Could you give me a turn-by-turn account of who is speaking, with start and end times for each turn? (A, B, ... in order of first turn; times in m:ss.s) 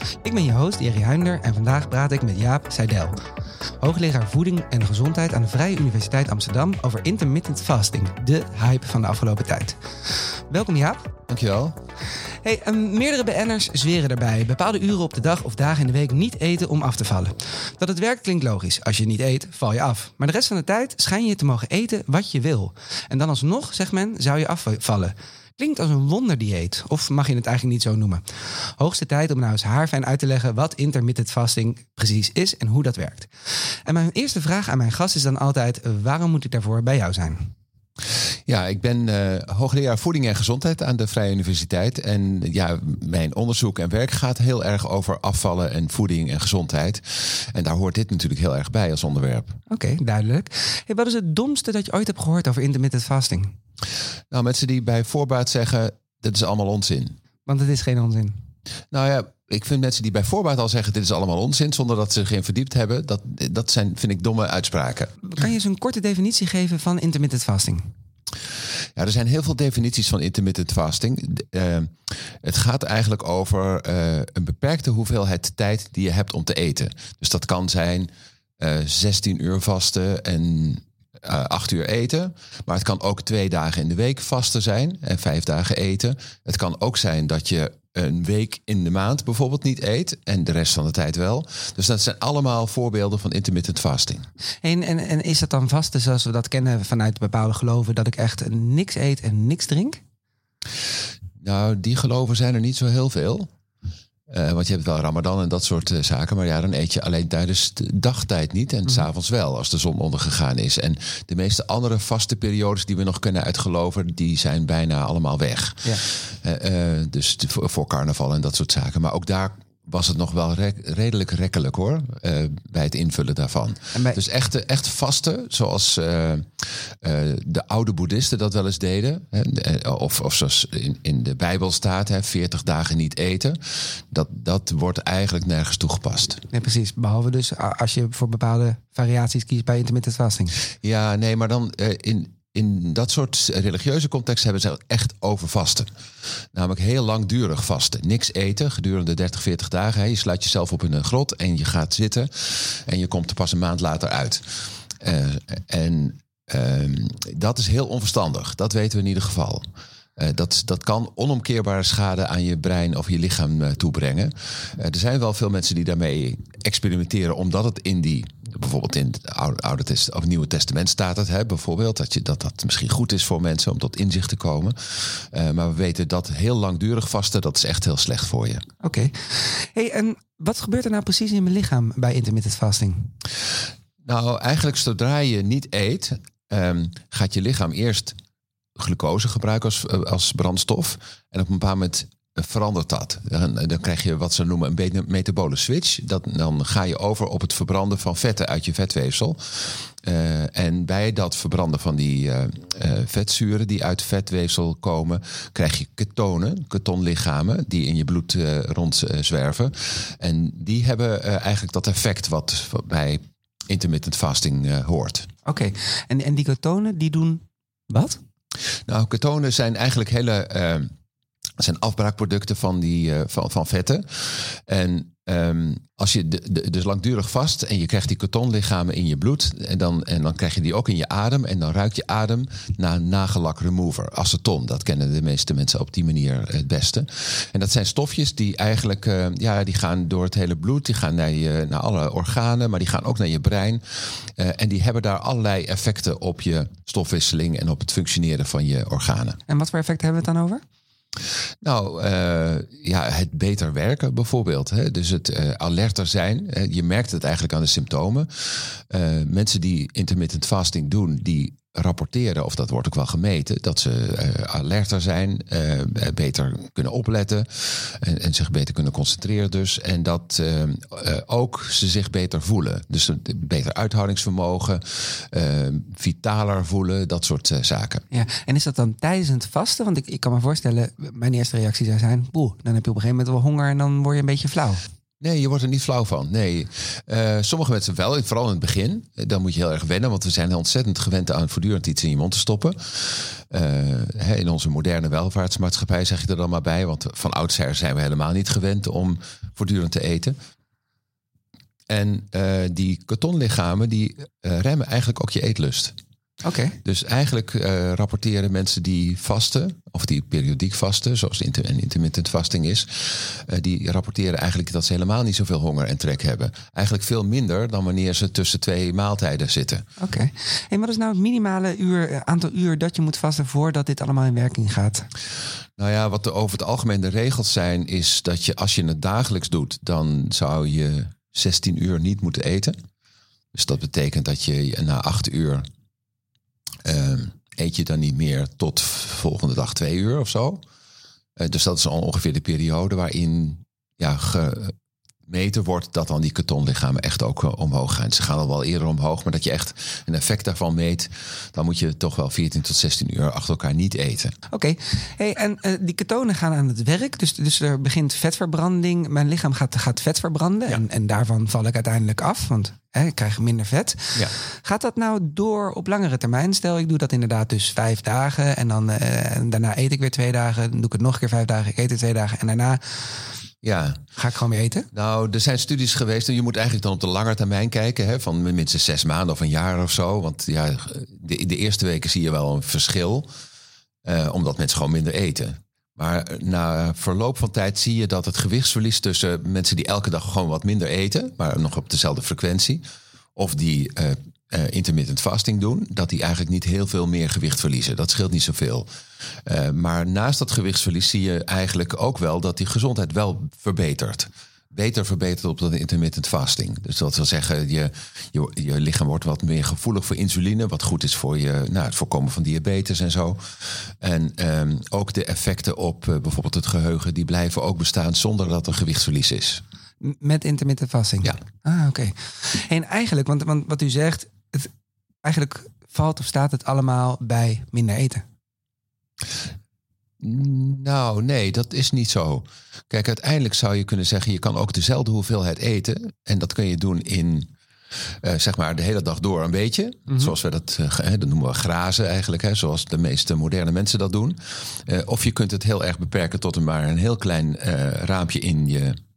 0:00.2-0:03.1 A
0:03.8-0:11.1 A
0:11.3-0:11.7 B
0:12.4-0:28.2 A
0:28.8-0:33.3 A
0:33.8-0:37.5 A
0:38.5-0:49.6 B
0:49.7-0:53.5 A
0:54.3-0:57.2 B
0:57.4-0:58.3 A
0:58.9-1:05.1 B
1:05.2-1:07.9 A
1:09.0-1:34.2 B
1:34.6-1:40.0 A
1:41.4-1:43.5 B
1:44.3-2:16.4 B
2:16.5-2:20.6 A
2:20.8-2:25.9 B
2:26.5-2:39.7 B
2:40.2-2:58.6 B
2:58.8-3:03.1 A
3:04.0-3:08.2 B
3:08.8-3:35.3 B
3:35.4-3:38.2 A
3:38.9-3:40.9 B
3:41.6-4:09.4 B
4:09.5-4:10.6 A
4:11.6-4:38.0 B
4:38.1-4:44.8 A
4:45.2-5:00.4 B
5:01.9-5:06.0 B
5:06.4-5:06.8 A
5:06.8-5:19.8 B
5:20.0-5:25.1 A
5:25.8-5:32.8 B
5:33.5-5:35.6 B
5:36.8-5:40.6 B
5:41.4-5:44.7 B
5:45.3-5:54.3 B
5:54.5-6:13.3 A
6:13.6-6:14.0 B
6:14.1-6:14.9 A
6:14.9-6:23.3 B
6:24.0-6:32.8 B
6:33.4-6:38.9 B
6:39.4-6:59.6 B
7:00.0-7:04.7 A
7:05.2-7:08.2 A
7:10.2-7:17.5 B
7:18.2-7:29.0 B